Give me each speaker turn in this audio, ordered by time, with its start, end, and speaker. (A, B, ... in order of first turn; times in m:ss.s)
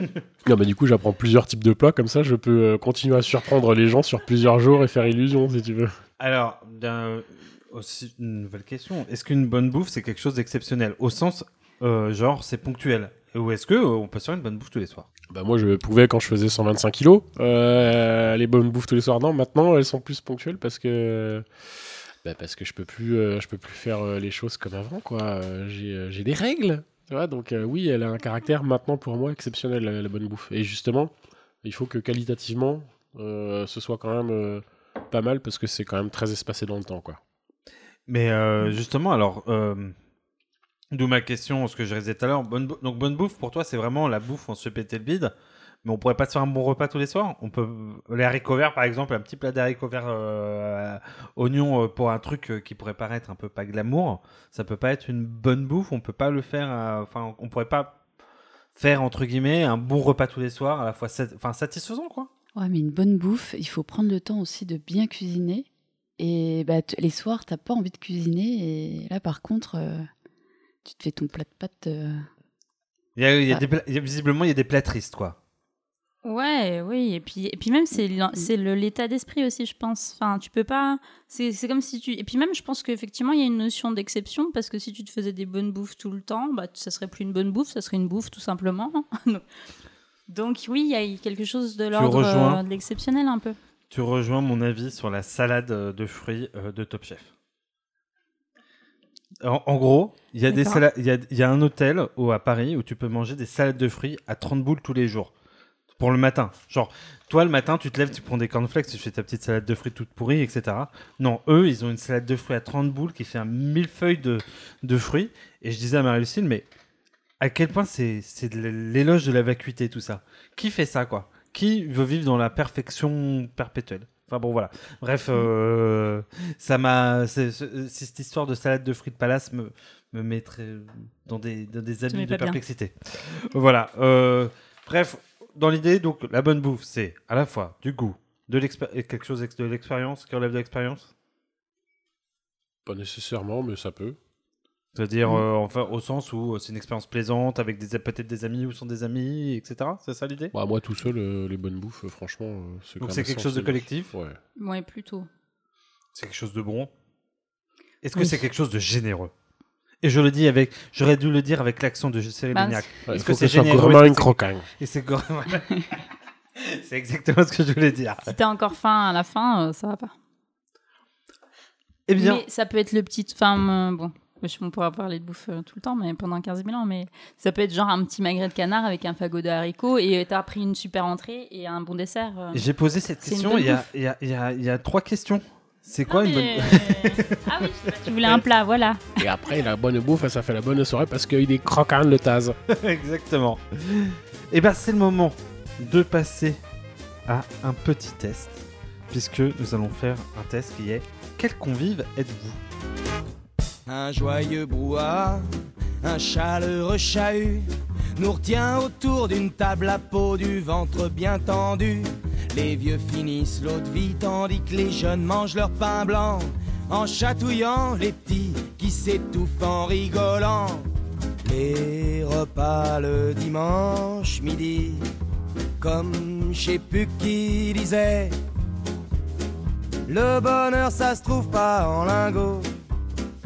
0:00.4-0:05.9 A
0:06.2-0:15.1 B
0:15.3-0:21.4 A
0:22.2-0:37.2 A
0:38.1-0:40.0 B
0:40.9-0:45.3 B
0:45.8-0:58.0 B
0:58.8-1:02.3 B
1:02.6-1:05.7 C
1:06.2-1:10.1 C
1:10.8-1:12.2 C
1:13.2-1:15.4 B
1:16.2-1:29.4 D
1:30.3-1:33.6 D
1:31.9-1:32.6 B
1:33.9-1:37.3 B
1:39.4-1:45.3 B
1:40.5-1:40.8 D
1:46.0-1:56.7 B
1:57.4-2:21.1 B
2:12.1-2:12.6 D
2:22.8-2:24.2 A
2:25.0-2:30.5 B
2:30.5-2:34.4 A
2:33.0-2:34.1 B
2:34.6-2:35.3 D
2:36.1-2:36.9 B
2:38.0-2:39.3 B
2:40.0-2:46.0 B
2:42.5-2:42.9 D
2:43.1-2:44.7 A
2:46.6-2:48.3 B
2:48.3-2:50.1 D
2:52.1-2:52.4 B
2:52.2-3:02.6 D
3:02.5-3:08.4 B
3:03.2-3:03.8 D
3:06.1-3:09.0 D
3:09.2-3:12.6 A
3:12.7-3:16.6 B
3:17.3-3:22.6 B
3:23.9-3:25.5 E
3:26.0-3:40.9 E
3:41.4-3:45.0 E
3:45.8-3:48.4 E
3:50.1-3:52.7 E